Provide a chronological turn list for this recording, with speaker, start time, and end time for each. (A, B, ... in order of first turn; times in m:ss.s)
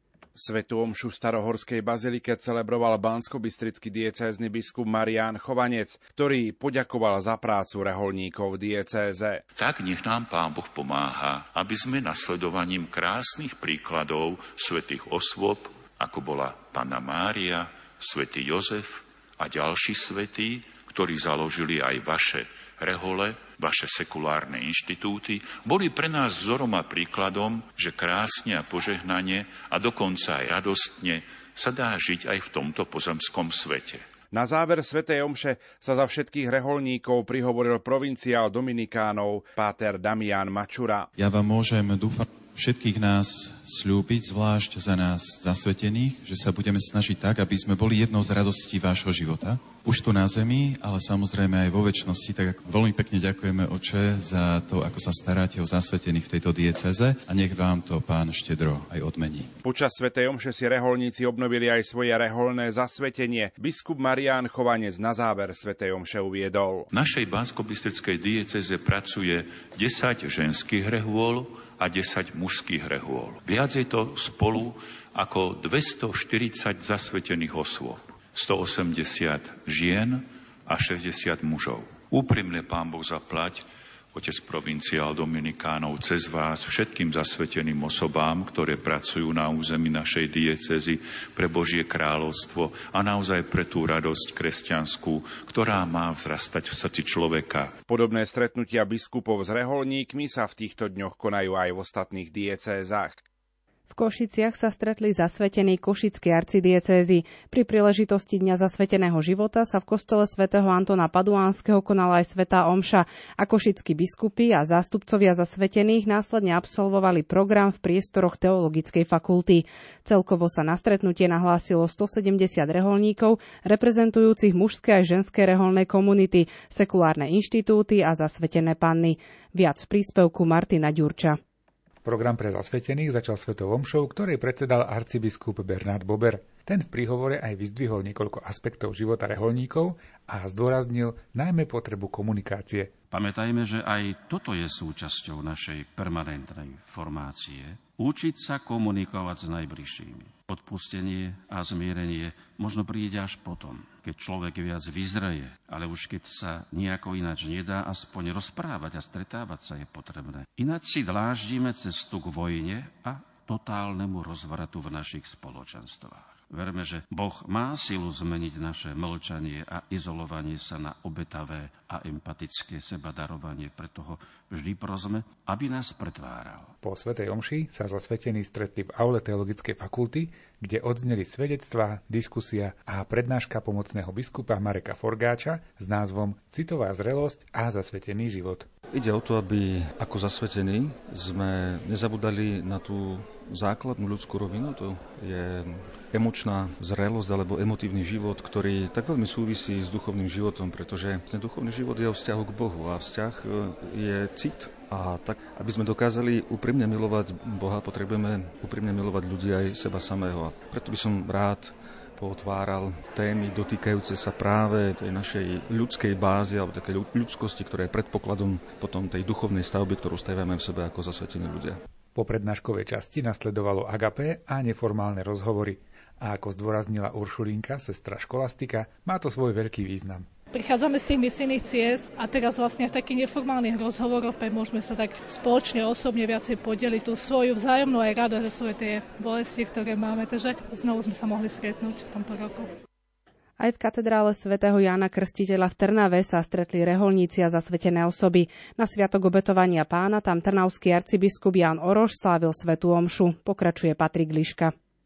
0:00.3-0:09.4 A
0:09.6-0:34.0 B
0:34.3-0:41.1 A
0:41.2-0:59.5 C
0:59.6-1:06.9 A
1:06.9-1:37.8 B
1:37.9-1:43.2 A
1:43.9-2:11.4 D
2:12.0-2:23.0 E
2:23.1-2:56.7 F
2:56.8-3:08.7 E
3:08.9-3:41.8 G
3:42.1-3:50.3 E
3:50.5-4:02.7 H
4:03.6-4:14.7 D